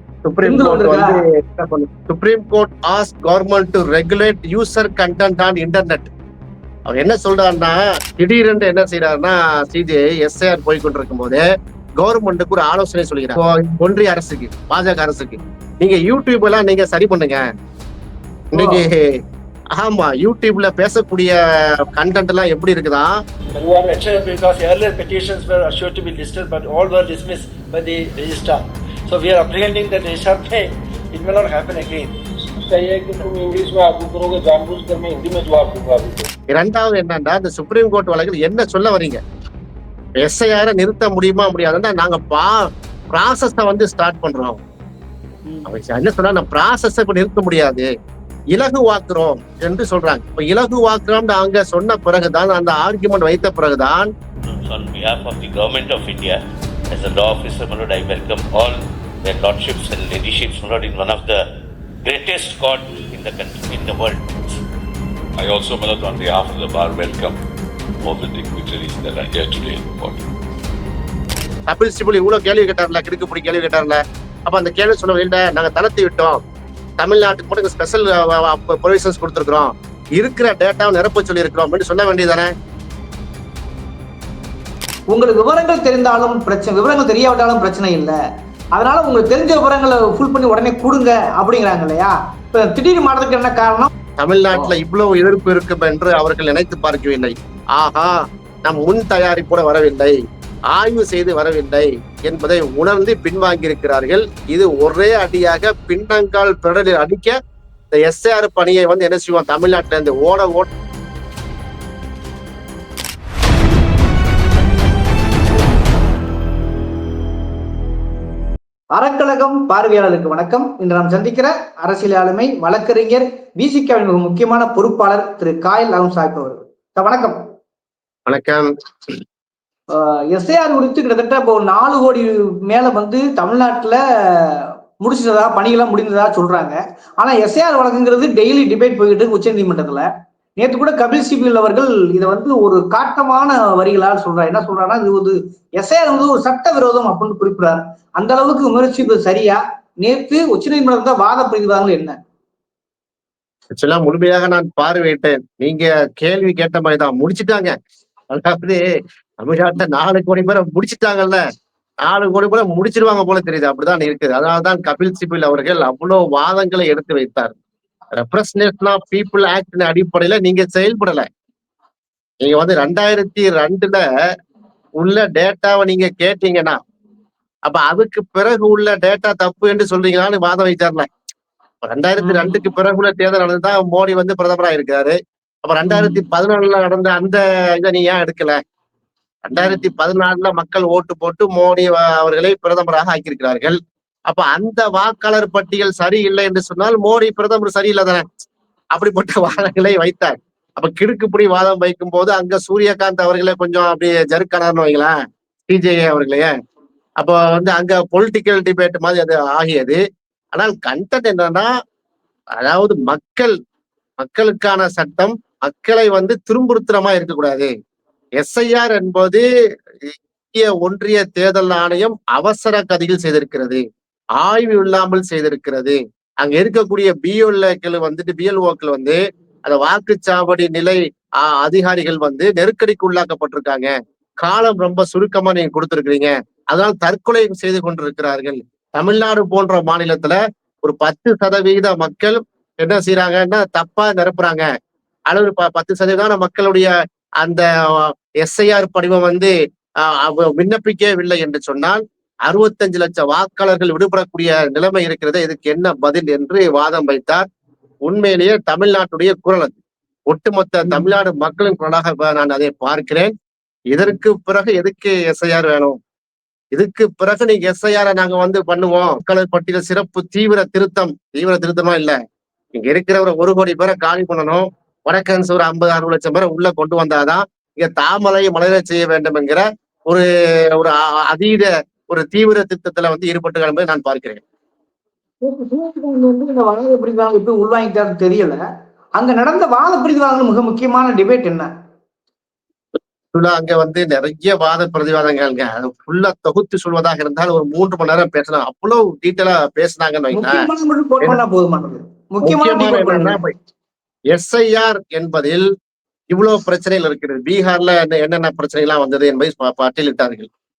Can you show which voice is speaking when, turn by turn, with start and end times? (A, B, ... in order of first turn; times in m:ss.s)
0:00.2-0:06.1 A
0:00.4-0:01.2 B
0:06.9-0:11.4 A
0:12.0-0:17.4 A
0:18.5-0:19.0 A
0:19.7-0:23.2 A
0:23.6-0:32.1 C
0:23.6-0:23.9 D
0:32.6-0:36.3 D
0:36.5-0:39.2 A
0:40.2-0:44.6 A
0:45.7-0:47.9 A
0:48.5-0:54.1 A
0:54.4-0:56.4 E
0:56.9-1:01.4 E
1:02.0-1:04.6 E
1:05.4-1:07.4 F
1:08.1-1:10.3 F
1:11.7-1:16.4 A
1:17.0-1:22.5 A
1:25.1-1:28.2 B
1:28.7-1:33.9 B
1:34.2-1:38.1 A
1:38.6-1:40.1 A
1:40.7-1:47.3 A
1:47.9-1:50.7 A
1:58.9-2:07.4 B
2:08.3-2:08.7 A
2:09.9-2:32.2 B
2:33.8-2:37.7 A
2:38.3-2:38.8 A
2:39.4-2:41.4 A
2:42.0-2:47.5 A
2:48.2-2:51.2 A
2:52.4-2:54.0 A
2:55.0-2:56.8 A
2:57.6-3:01.1 A
3:01.8-3:08.6 A
3:02.2-3:02.6 B
3:05.8-3:06.2 B
3:09.4-3:18.2 A
3:09.6-3:09.9 B
3:18.9-3:25.1 A
3:25.7-3:26.5 A
3:27.2-3:30.0 A
3:30.5-3:31.7 A
3:32.6-3:33.5 A
3:34.2-3:37.7 A
3:38.4-3:39.4 A
3:40.0-3:43.8 A
3:44.4-3:53.9 A
3:54.4-4:04.6 A
4:05.3-4:09.5 A
4:10.1-4:17.5 A
4:18.1-4:19.8 A
4:20.3-4:23.3 A
4:20.8-4:21.1 B
4:23.9-4:26.0 A
4:26.7-4:32.2 A
4:32.8-4:40.2 A
4:40.8-4:44.4 A
4:45.4-4:48.6 B
4:49.2-4:51.7 B
4:53.3-5:00.7 A
5:00.3-5:03.4 B
5:02.4-5:03.6 A
5:04.3-5:05.7 A
5:06.3-5:10.5 A